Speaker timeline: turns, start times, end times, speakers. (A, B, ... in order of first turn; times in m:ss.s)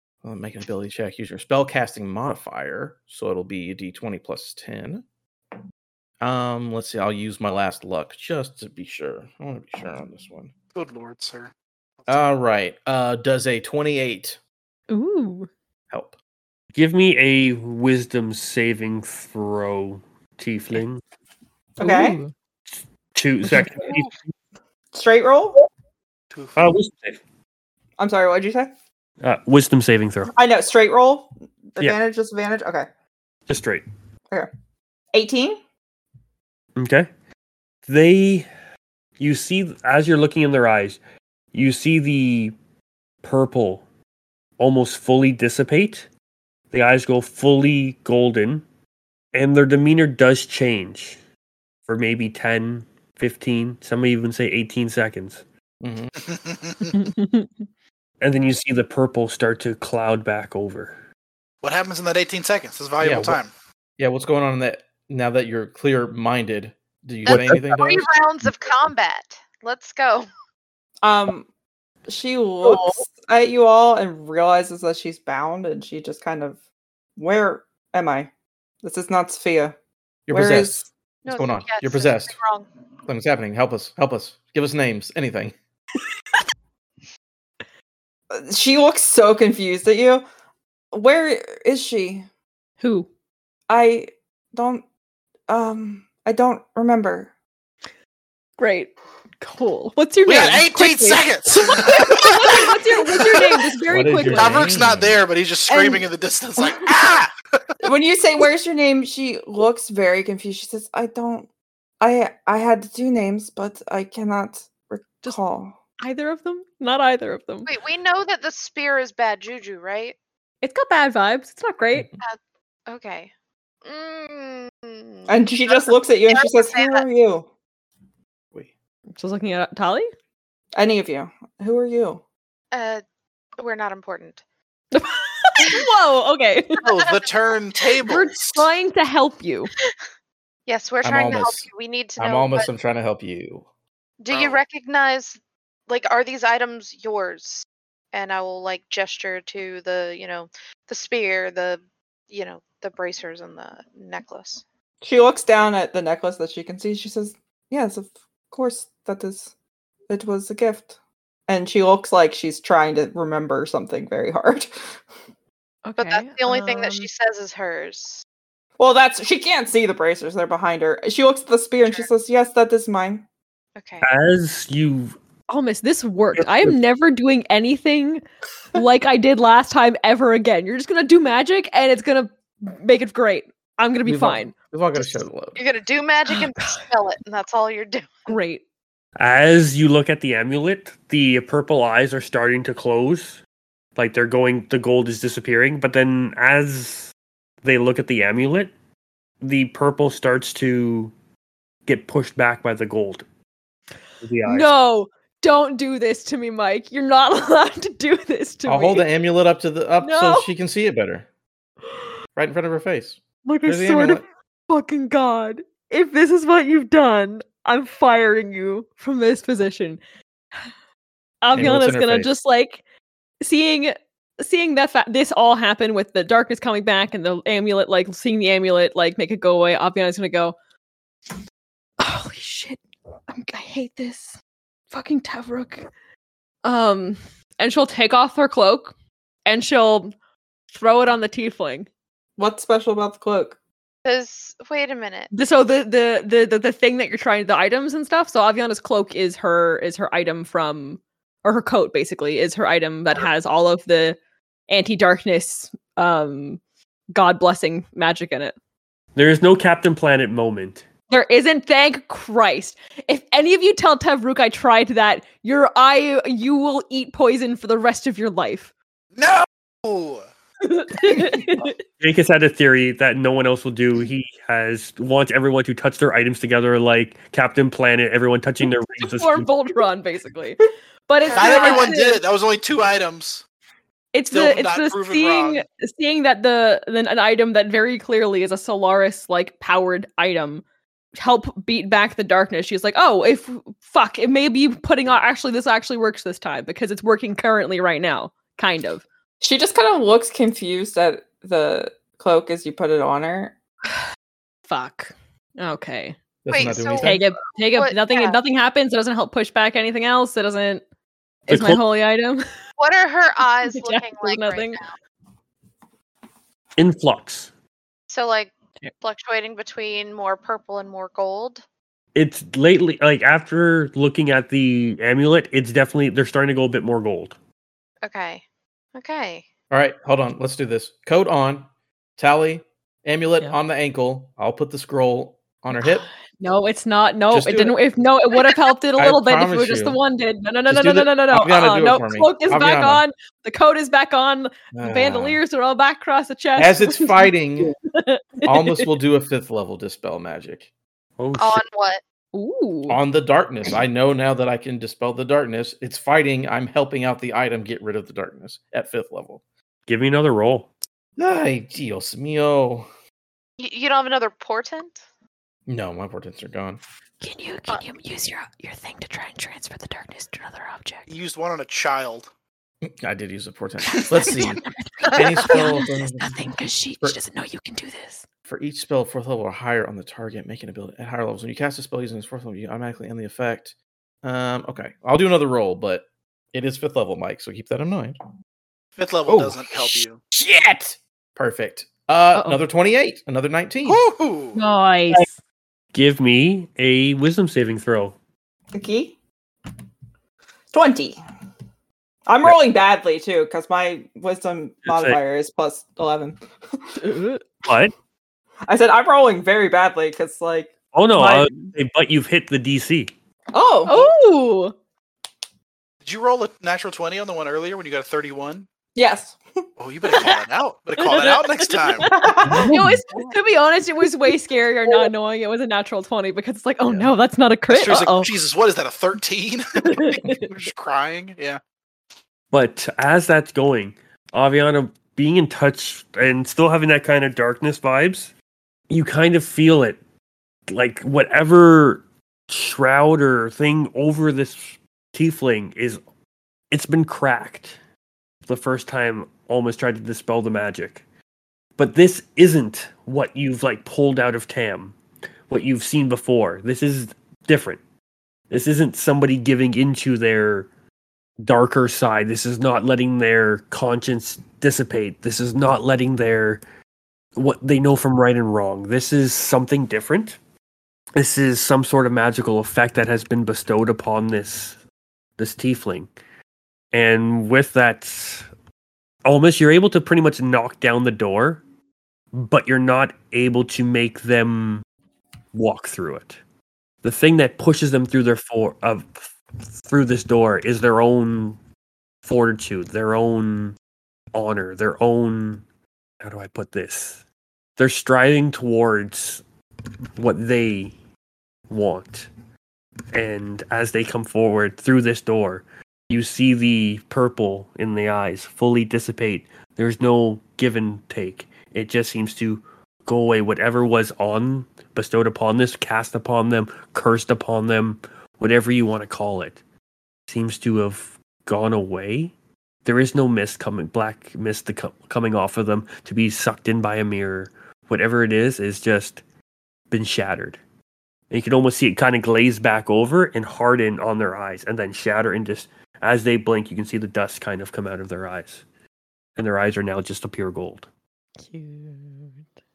0:00.2-0:05.0 A
0:06.2-0:10.5 A
0:10.7-0:11.5 B
0:12.1-0:14.4 A
0:14.9-0:15.5 C
0:16.7-0:21.0 D
0:21.8-0:22.2 E
0:21.8-0:22.3 C
0:23.1-0:24.3 D
0:24.9-0:25.6 E
0:26.3-0:26.7 B
0:26.6-0:27.2 D
0:28.0-0:28.7 E
0:29.2-0:30.3 D
0:30.3-0:32.9 E
0:33.5-0:33.8 D
0:35.1-0:35.6 E
0:36.8-0:37.1 D
0:37.8-0:38.5 D
0:39.2-0:41.0 D
0:41.5-0:42.5 D
0:43.2-0:43.8 D
0:44.6-0:46.1 D
0:46.7-0:48.6 D
0:49.3-0:51.2 D
0:51.8-0:55.4 D
0:55.8-0:56.1 A
0:56.3-0:56.9 B
0:57.0-0:57.5 C
0:58.2-1:01.0 D
1:01.6-1:03.5 B
1:03.0-1:03.4 A
1:04.0-1:08.1 A
1:07.2-1:10.3 F
1:07.3-1:07.6 D
1:11.0-1:11.5 E
1:12.1-1:16.6 E
1:17.2-1:18.3 E
1:18.8-1:19.7 E
1:20.3-1:22.4 A
1:20.3-1:20.8 E
1:21.2-1:22.7 F
1:23.1-1:25.6 A
1:28.3-1:30.2 E
1:30.9-1:32.2 E
1:32.8-1:33.1 C
1:33.7-1:34.8 E
1:35.5-1:37.3 E
1:38.6-1:44.7 C
1:40.2-1:43.6 B
1:43.9-1:45.2 A
1:44.3-1:47.3 B
1:45.7-1:46.1 E
1:47.8-1:51.5 E
1:52.0-1:55.7 E
1:56.0-1:57.7 C
1:57.7-2:00.1 F
2:00.6-2:02.1 C
2:02.2-2:03.3 F
2:03.8-2:07.0 F
2:05.3-2:07.5 E
2:09.2-2:10.1 C
2:10.8-2:12.2 E
2:12.7-2:13.0 F
2:13.6-2:14.4 F
2:14.9-2:16.8 C
2:16.8-2:18.6 B
2:16.8-2:17.3 F
2:18.0-2:19.7 C
2:20.7-2:22.7 F
2:21.0-2:23.6 A
2:24.2-2:34.6 F
2:24.3-2:24.6 B
2:35.0-2:39.5 E
2:40.1-2:41.0 E
2:41.5-2:45.0 E
2:45.8-2:47.1 C
2:46.0-2:48.2 F
2:48.8-2:53.2 E
2:53.8-2:54.0 F
2:54.0-2:55.2 D
2:55.5-2:58.2 C
2:56.3-2:56.8 D
2:58.7-3:04.6 C
3:04.0-3:05.6 A
3:05.6-3:08.3 F
3:06.3-3:06.8 C
3:08.3-3:08.6 C
3:09.2-3:13.4 D
3:14.0-3:17.1 D
3:17.6-3:18.7 D
3:19.4-3:21.1 D
3:21.8-3:23.2 D
3:24.2-3:24.7 D
3:24.4-3:29.0 C
3:28.6-3:31.2 A
3:30.0-3:30.5 C
3:32.3-3:34.2 A
3:33.4-3:40.0 C
3:41.4-3:42.8 C
3:41.5-3:42.3 A
3:43.4-3:50.5 C
3:52.0-3:54.4 C
3:54.9-3:55.9 C
3:56.6-3:58.9 C
3:59.4-4:00.1 C
4:00.7-4:01.9 C
4:02.4-4:03.6 E
4:04.0-4:05.3 F
4:05.3-4:14.2 C
4:14.7-4:16.6 C
4:17.1-4:18.5 C
4:19.1-4:20.8 D
4:21.1-4:28.7 C
4:29.2-4:30.3 B
4:30.6-4:31.8 C
4:32.0-4:39.5 D
4:39.0-4:42.2 C
4:41.2-4:41.9 F
4:41.3-4:43.4 B
4:44.1-4:50.6 C
4:44.3-4:45.6 B
4:51.2-4:59.0 C
4:59.4-5:03.5 E
5:04.7-5:06.2 C
5:06.4-5:07.2 A
5:06.5-5:08.4 F
5:07.0-5:10.8 C
5:11.5-5:12.4 C
5:11.5-5:11.8 D
5:12.8-5:14.9 F
5:13.6-5:14.8 C
5:16.8-5:17.5 D
5:18.1-5:21.6 F
5:22.1-5:27.4 D
5:28.0-5:28.4 F
5:28.9-5:29.5 F
5:29.7-5:36.1 A
5:35.8-5:48.9 C
5:37.3-5:37.8 A
5:39.0-5:40.0 A
5:40.7-5:43.0 A
5:44.7-5:45.4 A
5:46.6-5:47.7 A
5:48.4-5:50.7 A
5:51.2-5:51.6 D
5:51.4-5:52.0 F
5:52.3-5:53.0 C
5:52.9-5:59.4 A
5:59.9-6:00.7 D
6:01.2-6:02.9 A
6:03.6-6:05.0 F
6:05.7-6:06.8 A
6:07.2-6:11.1 C
6:11.1-6:12.3 B
6:12.8-6:17.2 A
6:14.2-6:18.2 C
6:18.5-6:28.2 A
6:29.0-6:30.2 B
6:29.3-6:34.0 A
6:32.3-6:32.6 C
6:33.8-6:34.6 B
6:34.5-6:35.3 C
6:35.9-6:38.2 D
6:38.7-6:39.1 E
6:40.7-6:41.2 E
6:42.3-6:46.8 E
6:44.8-6:45.2 D
6:47.0-6:47.4 C
6:47.6-6:47.9 D
6:48.7-6:51.7 E
6:50.9-6:53.1 D
6:53.5-6:54.1 E
6:53.9-6:54.7 C
6:56.0-6:58.7 B
6:58.9-6:59.4 E
6:59.8-7:02.1 B
7:01.0-7:08.3 C
7:02.1-7:02.8 E
7:06.8-7:07.1 A
7:07.7-7:11.6 B
7:09.8-7:10.5 C
7:12.5-7:18.3 D
7:18.9-7:20.0 D
7:20.7-7:26.0 D
7:26.7-7:27.8 D
7:28.4-7:31.0 D
7:31.8-7:35.0 D
7:35.5-7:37.8 D
7:38.5-7:40.7 D
7:41.4-7:46.6 D
7:47.4-7:50.4 D
7:51.2-7:54.8 D
7:55.4-7:56.1 D
7:56.9-7:58.5 D
7:59.2-8:01.6 D
8:02.3-8:04.8 D
8:05.5-8:06.4 D
8:07.0-8:11.6 D
8:12.2-8:13.8 D
8:14.3-8:15.6 D
8:16.2-8:17.2 D
8:17.8-8:19.4 D
8:20.2-8:20.9 D
8:21.7-8:22.3 D
8:23.1-8:39.6 D
8:40.3-8:42.3 D
8:42.8-8:49.2 D
8:49.9-8:50.6 D
8:51.3-8:58.6 D
8:59.4-9:00.9 D
9:01.4-9:02.4 C